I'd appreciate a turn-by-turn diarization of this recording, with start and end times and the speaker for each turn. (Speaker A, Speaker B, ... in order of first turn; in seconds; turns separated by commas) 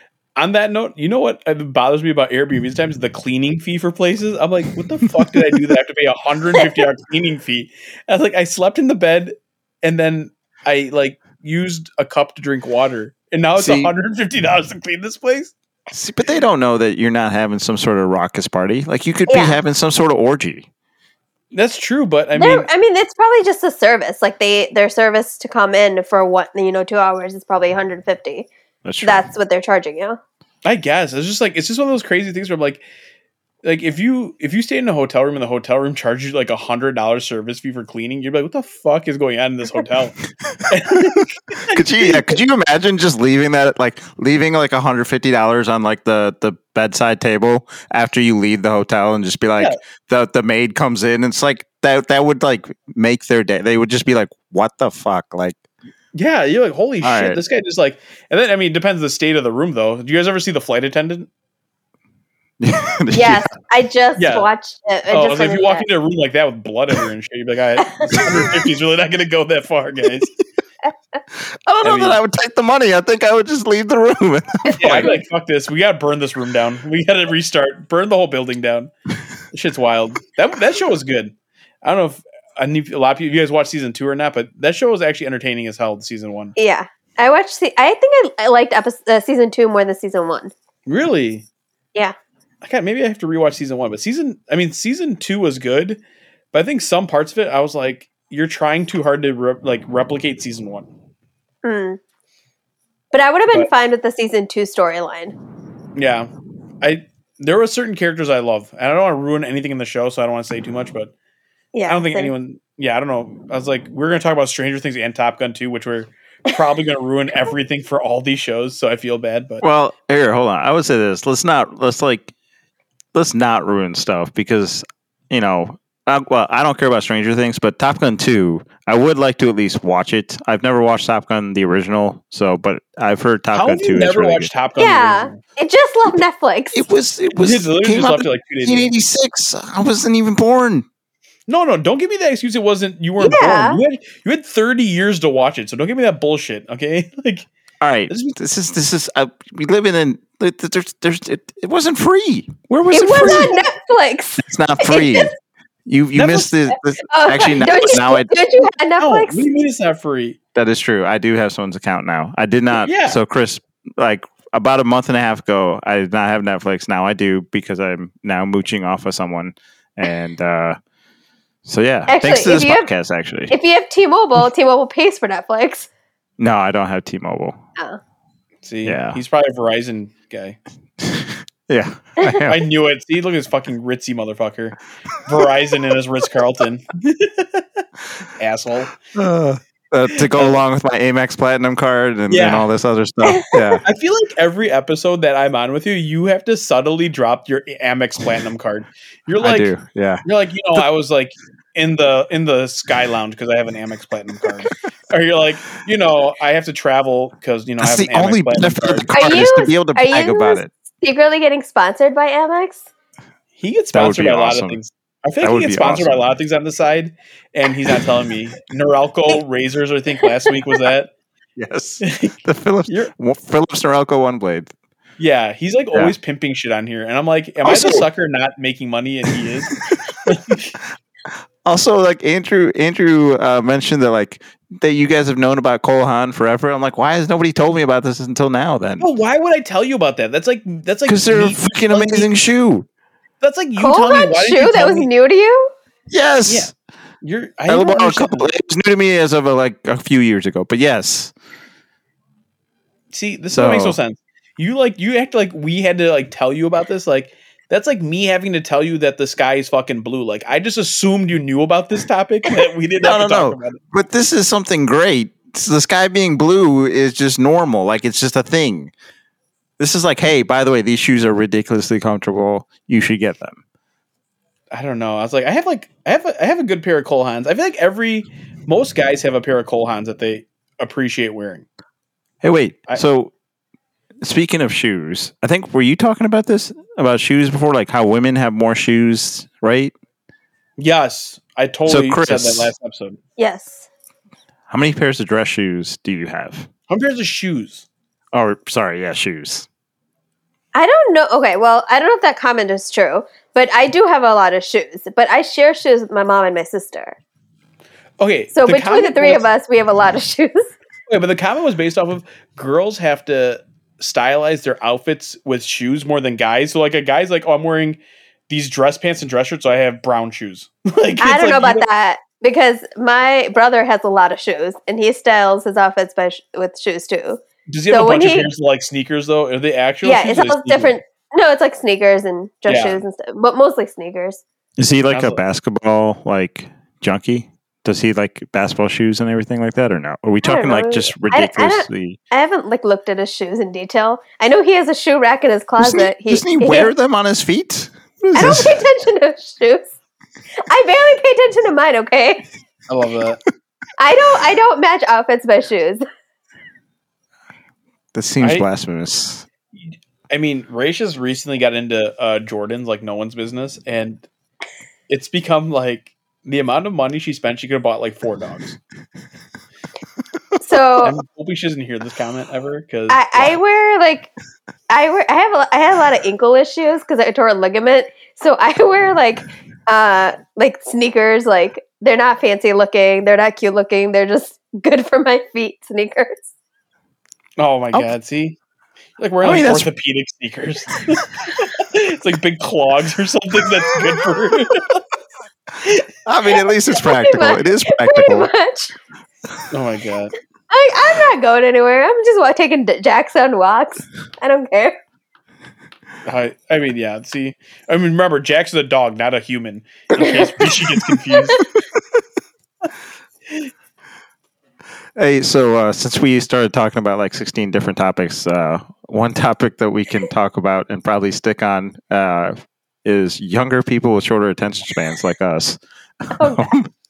Speaker A: 0.3-15.5, Speaker B: 13.6-13.9, Speaker B: 15.9-20.7, Speaker C: 19.3-19.6, Speaker A: 21.5-22.7, Speaker C: 22.3-28.5, Speaker B: 28.8-29.3, Speaker C: 29.0-30.2, Speaker A: 30.6-32.8, Speaker A: 33.6-42.4, Speaker B: 40.5-55.6, Speaker A: 56.1-61.3, Speaker B: 57.0-57.4, Speaker B: 62.6-63.5, Speaker C: 63.1-65.8, Speaker A: 64.2-64.5, Speaker A: 65.1-70.3, Speaker C: 67.8-68.3, Speaker B: 71.8-75.1, Speaker A: 71.8-72.2, Speaker C: 74.6-75.2, Speaker A: 74.8-78.9, Speaker A: 79.5-86.5, Speaker C: 86.6-90.5, Speaker A: 90.9-91.5, Speaker A: 92.6-96.0, Speaker A: 96.5-100.9, Speaker C: 101.6-102.0, Speaker C: 103.1-105.3, Speaker A: 106.0-106.3, Speaker A: 106.8-111.1, Speaker C: 111.7-112.3, Speaker A: 111.9-119.6, Speaker B: 119.6-122.3, Speaker B: 123.1-134.5, Speaker A: 133.5-135.4, Speaker C: 134.8-136.8, Speaker B: 136.7-140.8, Speaker A: 137.4-138.9, Speaker A: 141.5-147.5, Speaker C: 143.2-143.8, Speaker B: 147.8-153.6, Speaker A: 148.1-148.3, Speaker C: 152.9-155.3, Speaker B: 154.4-155.3, Speaker B: 155.8-158.3, Speaker A: 156.1-156.5, Speaker C: 157.1-159.4, Speaker A: 159.0-160.4, Speaker B: 160.5-170.8, Speaker A: 162.8-163.2, Speaker B: 171.6-173.5, Speaker C: 172.1-172.9, Speaker C: 173.5-175.9, Speaker B: 176.4-177.6, Speaker A: 178.6-180.6, Speaker B: 178.8-179.2, Speaker B: 181.0-182.6, Speaker A: 182.5-187.8, Speaker A: 188.4-189.0, Speaker B: 189.1-193.8, Speaker A: 190.2-190.6, Speaker A: 192.3-192.7, Speaker C: 193.3-193.8, Speaker A: 193.8-199.7, Speaker B: 199.4-200.2, Speaker A: 200.2-209.1, Speaker B: 207.8-210.7, Speaker C: 209.1-212.8, Speaker A: 213.6-221.1, Speaker B: 213.9-214.8, Speaker B: 215.4-216.2, Speaker B: 221.6-224.7, Speaker A: 222.0-222.3, Speaker A: 222.9-223.1, Speaker A: 225.2-230.8, Speaker B: 227.6-228.1, Speaker B: 229.3-230.5, Speaker B: 231.6-239.1, Speaker A: 239.0-242.3, Speaker B: 241.1-242.9, Speaker A: 243.4-245.1, Speaker C: 243.8-245.7, Speaker B: 246.1-246.7, Speaker A: 246.4-248.5, Speaker B: 247.7-251.3, Speaker A: 253.1-263.8, Speaker B: 253.5-254.0, Speaker B: 263.0-268.9, Speaker B: 269.8-273.6, Speaker A: 274.7-281.6, Speaker B: 282.4-283.3, Speaker B: 284.2-289.9, Speaker A: 290.8-293.2, Speaker B: 291.9-292.7, Speaker C: 293.4-293.9, Speaker B: 294.7-296.7, Speaker A: 296.9-297.9, Speaker B: 298.3-299.7, Speaker C: 300.7-307.2, Speaker A: 308.2-309.4, Speaker C: 308.5-310.7, Speaker A: 311.1-318.0, Speaker A: 318.5-321.9, Speaker C: 321.2-328.5, Speaker A: 327.7-330.9, Speaker C: 330.0-334.4, Speaker A: 332.7-333.0, Speaker B: 334.8-342.2, Speaker A: 335.1-335.4, Speaker C: 340.4-346.9, Speaker B: 345.8-348.8, Speaker C: 348.3-349.9, Speaker C: 350.7-352.4, Speaker A: 352.9-353.4, Speaker C: 354.0-356.0, Speaker B: 358.1-359.4, Speaker A: 358.4-358.6, Speaker A: 360.3-364.2, Speaker A: 365.1-368.8, Speaker C: 370.6-371.2, Speaker A: 371.0-373.6, Speaker C: 373.1-374.3, Speaker C: 374.9-386.5, Speaker A: 387.6-388.6, Speaker A: 389.2-395.0, Speaker B: 389.4-389.9, Speaker B: 396.2-398.5, Speaker C: 396.9-398.9, Speaker A: 399.7-400.3, Speaker C: 400.7-404.9, Speaker A: 406.2-411.7, Speaker C: 410.2-410.4, Speaker C: 411.4-411.6, Speaker B: 415.1-426.9, Speaker C: 426.4-426.7